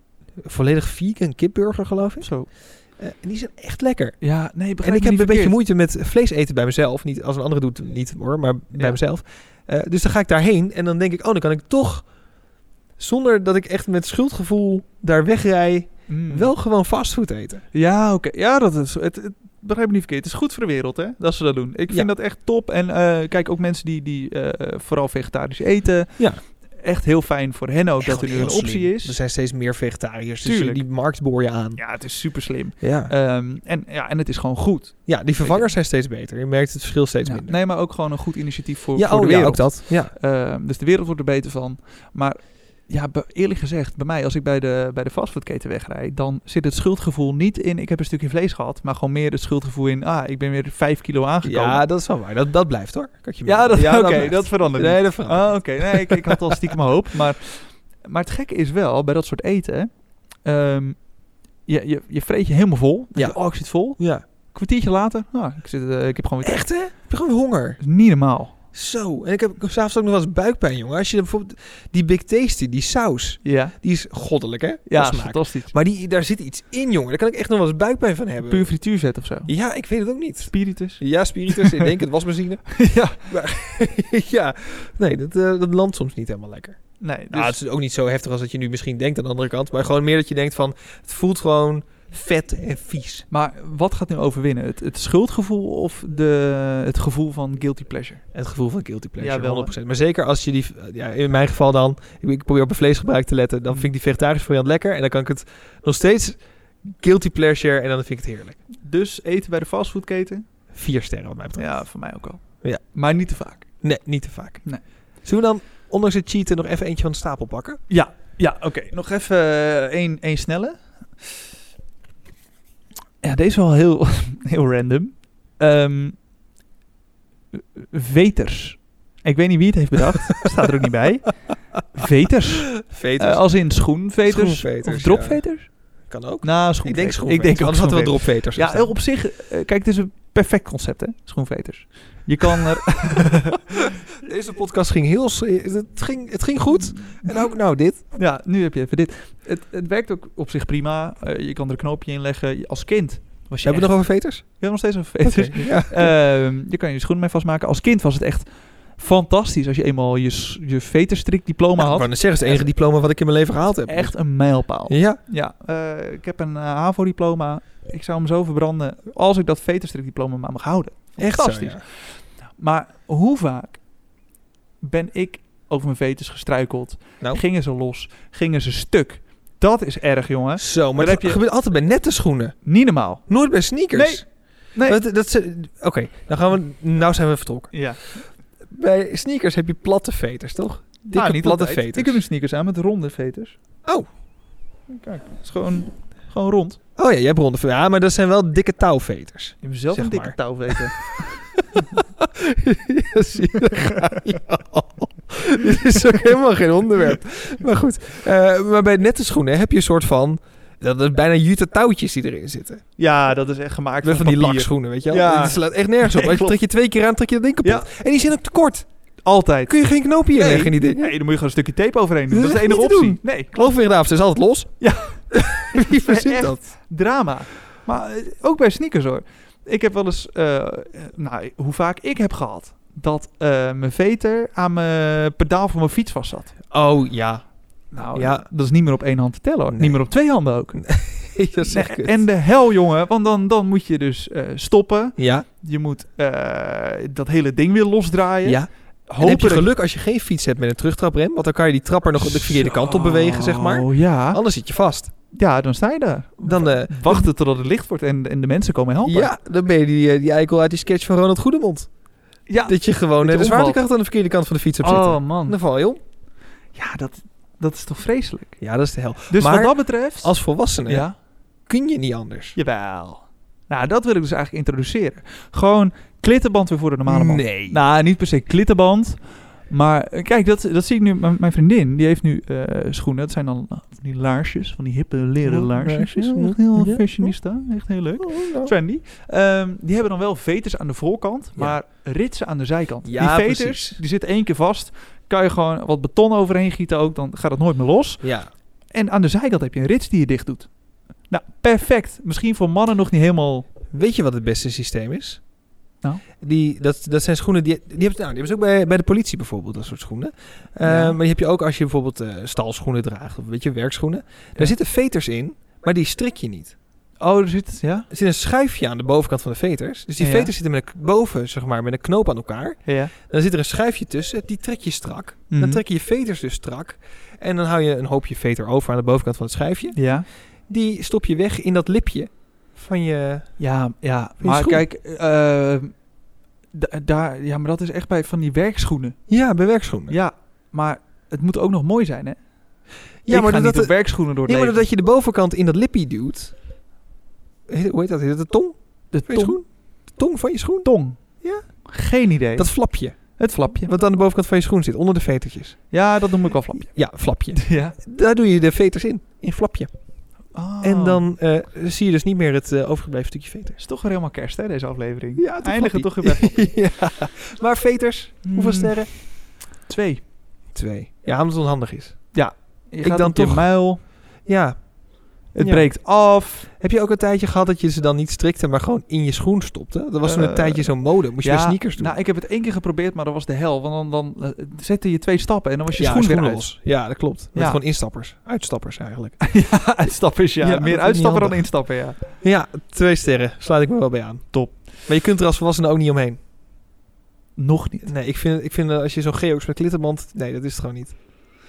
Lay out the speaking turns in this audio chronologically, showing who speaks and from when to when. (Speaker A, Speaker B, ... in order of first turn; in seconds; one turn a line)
Speaker A: 0.4-12.1
Speaker B: 2.2-2.5
Speaker B: 4.2-5.6
Speaker B: 8.7-9.0
Speaker A: 13.0-17.6
Speaker B: 16.1-16.5
Speaker B: 17.7-29.2
Speaker A: 28.0-31.9
Speaker B: 30.4-30.8
Speaker B: 31.8-35.7
Speaker A: 32.8-33.1
Speaker A: 35.1-37.6
Speaker B: 37.2-51.8
Speaker A: 39.0-40.1
Speaker A: 51.4-56.8
Speaker B: 53.4-61.1
Speaker B: 61.7-66.7
Speaker A: 63.1-64.2
Speaker A: 66.4-67.8
Speaker B: 67.8-68.5
Speaker A: 68.7-78.7
Speaker B: 73.4-73.8
Speaker B: 74.9-75.7
Speaker B: 78.5-79.5
Speaker A: 79.5-93.3
Speaker B: 80.4-81.9
Speaker B: 82.8-83.3
Speaker B: 87.0-87.6
Speaker B: 93.3-98.2
Speaker A: 98.3-108.6
Speaker B: 99.2-99.7
Speaker B: 108.8-110.4
Speaker A: 110.7-111.9
Speaker B: 111.6-113.8
Speaker A: 113.8-117.8
Speaker B: 117.9-121.4
Speaker B: 123.2-126.2
Speaker B: 127.6-135.8
Speaker A: 132.7-133.5
Speaker A: 134.2-135.4
Speaker A: 136.1-138.9
Speaker B: 136.4-143.8
Speaker A: 143.3-148.0
Speaker B: 147.1-147.4
Speaker B: 148.1-162.6
Speaker A: 153.6-154.4
Speaker A: 155.2-156.1
Speaker A: 161.8-164.2
Speaker B: 163.9-173.8
Speaker A: 164.9-165.2
Speaker A: 171.2-171.8
Speaker B: 174.8-181.4
Speaker A: 180.6-182.6
Speaker B: 182.7-183.3
Speaker A: 183.3-192.2
Speaker B: 183.9-185.0
Speaker B: 187.7-188.0
Speaker B: 191.1-193.6
Speaker B: 194.9-196.8
Speaker A: 197.0-201.2
Speaker B: 199.6-202.0
Speaker A: 201.8-212.8
Speaker B: 213.0-216.6
Speaker A: 214.0-218.9
Speaker B: 219.2-223.7
Speaker A: 219.7-221.2
Speaker A: 222.3-226.6
Speaker B: 224.8-236.6
Speaker A: 236.7-238.5
Speaker B: 237.9-249.7
Speaker A: 239.7-240.2
Speaker A: 240.7-242.2
Speaker A: 245.2-245.5
Speaker A: 248.4-255.1
Speaker B: 252.2-254.4
Speaker B: 255.3-259.3
Speaker A: 256.4-257.3
Speaker A: 259.0-261.9
Speaker B: 262.5-263.8
Speaker A: 262.6-266.0
Speaker B: 264.8-265.6
Speaker B: 266.7-268.6
Speaker A: 268.6-271.1
Speaker B: 269.3-271.1
Speaker A: 271.7-272.6
Speaker B: 272.6-300.7
Speaker A: 277.1-277.8
Speaker A: 285.4-287.6
Speaker A: 288.2-288.8
Speaker A: 291.6-291.8
Speaker A: 293.0-294.0
Speaker A: 298.2-298.5
Speaker B: 301.3-303.7
Speaker A: 303.9-305.4
Speaker A: 306.4-316.8
Speaker B: 310.8-311.2
Speaker B: 317.2-318.1
Speaker A: 318.1-333.6
Speaker B: 320.2-320.5
Speaker B: 322.9-323.1
Speaker B: 325.5-325.8
Speaker B: 329.9-330.3
Speaker B: 333.6-336.0
Speaker A: 334.4-334.8
Speaker B: 336.7-339.2
Speaker A: 339.3-340.1
Speaker B: 340.1-342.4
Speaker A: 343.2-346.6
Speaker B: 343.3-344.9
Speaker A: 347.7-351.9
Speaker B: 349.1-349.8
Speaker B: 350.8-353.9
Speaker A: 352.6-355.8
Speaker B: 355.9-357.0
Speaker A: 356.9-359.9
Speaker B: 357.5-358.0
Speaker B: 360.5-361.3
Speaker A: 360.8-363.8
Speaker B: 363.8-366.6
Speaker A: 365.4-369.1
Speaker B: 368.4-370.2
Speaker A: 370.7-372.5
Speaker B: 372.3-374.0
Speaker A: 373.0-373.8
Speaker A: 374.4-376.1
Speaker B: 375.5-376.7
Speaker A: 376.6-382.2
Speaker B: 380.2-387.8
Speaker A: 386.0-396.4
Speaker B: 389.4-392.2
Speaker B: 394.5-394.8
Speaker B: 397.6-398.1
Speaker A: 398.1-401.2